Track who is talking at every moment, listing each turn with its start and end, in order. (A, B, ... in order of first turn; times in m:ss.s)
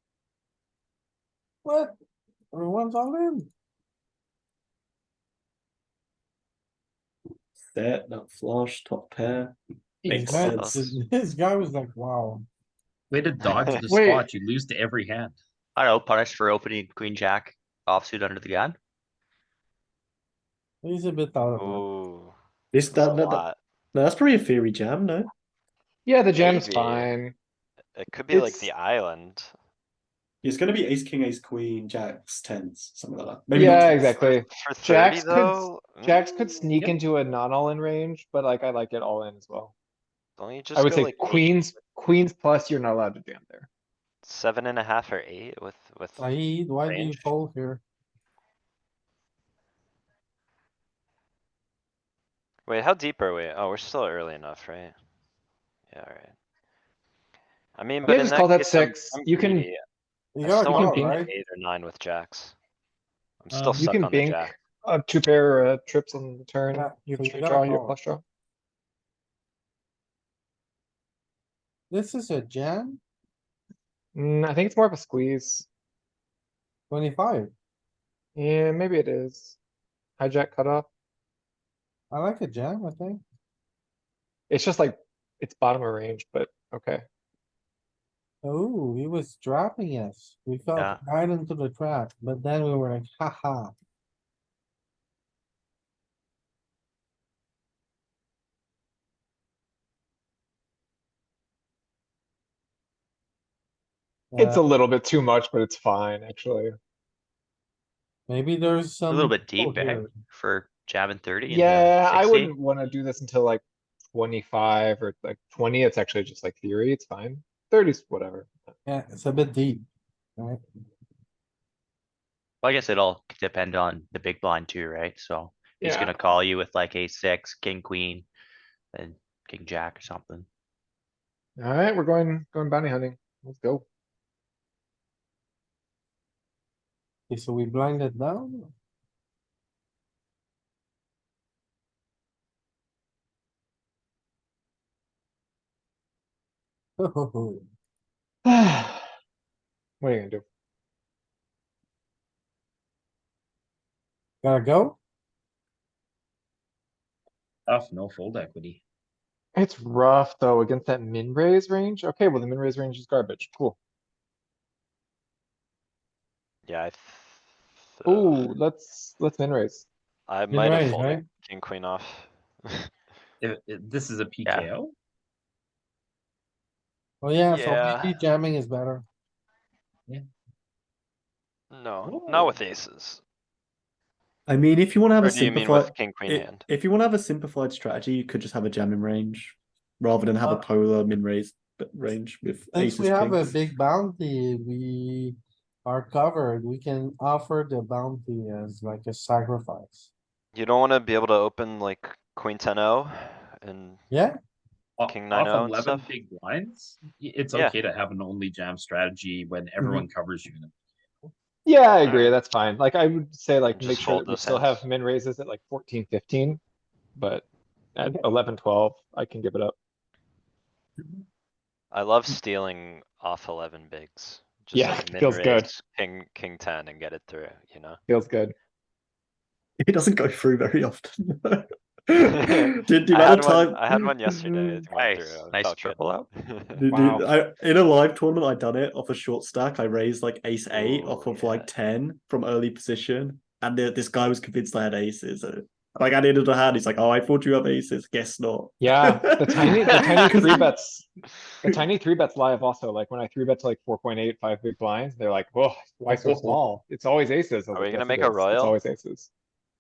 0:01.6-0:01.9 A
0:02.5-0:03.5 A
0:07.7-0:11.0 B
0:10.0-0:10.6 C
0:10.1-0:12.5 A
0:13.1-0:15.4 C
0:13.8-0:14.3 D
0:15.8-0:18.8 E
0:20.8-0:21.8 A
0:21.6-0:22.4 F
0:22.7-0:25.3 B
0:22.9-0:23.6 F
0:26.1-0:27.4 D
0:26.3-0:27.1 F
0:28.0-0:29.5 F
0:28.3-0:28.7 D
0:30.4-0:34.2 B
0:33.5-0:39.7 D
0:34.2-0:37.0 F
0:40.4-0:41.6 F
0:40.8-0:43.7 D
0:44.2-0:46.3 F
0:46.2-0:47.8 A
0:46.8-0:47.3 F
0:52.7-0:55.0 F
0:55.9-0:56.3 F
0:57.8-0:59.8 F
0:58.0-0:59.7 D
1:00.4-1:01.3 A
1:00.4-1:02.6 F
1:00.7-1:01.1 D
1:03.4-1:04.5 F
1:03.5-1:03.9 C
1:03.8-1:08.2 D
1:06.7-1:08.0 A
1:11.9-1:13.0 A
1:14.2-1:15.7 D
1:16.9-1:17.5 A
1:18.4-1:19.6 D
1:20.2-1:20.9 D
1:22.1-1:23.2 A
1:24.5-1:27.0 D
1:28.4-1:33.8 A
1:44.3-1:44.6 A
1:44.4-1:46.8 D
1:48.3-1:50.1 A
1:49.1-1:52.5 E
1:51.5-1:58.5 D
1:58.9-1:59.8 A
2:02.6-2:08.3 E
2:05.8-2:06.2 D
2:08.9-2:10.5 E
2:11.6-2:13.8 D
2:17.3-2:18.7 A
2:27.0-2:27.7 A
2:28.4-2:29.1 D
2:30.0-2:30.4 D
2:34.4-2:35.0 A
2:37.7-2:38.8 C
2:39.6-2:43.8 D
2:46.7-2:48.5 F
2:48.0-2:49.9 D
2:50.3-2:52.9 F
2:50.5-2:51.2 A
2:53.4-2:54.9 C
2:54.4-2:54.7 E
2:57.2-2:59.0 A
2:57.5-2:58.2 F
3:01.7-3:03.2 F
3:02.0-3:02.6 C
3:04.5-3:13.6 B
3:05.2-3:06.6 F
3:12.7-3:20.1 A
3:20.5-3:24.0 F
3:25.0-3:30.7 C
3:25.1-3:26.1 F
3:31.7-3:36.6 D
3:32.0-3:32.4 F
3:33.7-3:34.8 F
3:37.2-3:39.8 D
3:41.9-3:48.0 F
3:44.7-3:45.7 D
3:48.1-3:48.6 D
3:49.8-3:54.8 B
3:52.3-3:56.8 F
3:54.9-3:56.3 E
3:56.8-4:10.7 B
3:56.9-3:57.3 D
4:00.7-4:01.7 F
4:08.8-4:11.1 D
4:11.6-4:19.3 D
4:16.1-4:16.6 B
4:17.7-4:18.8 F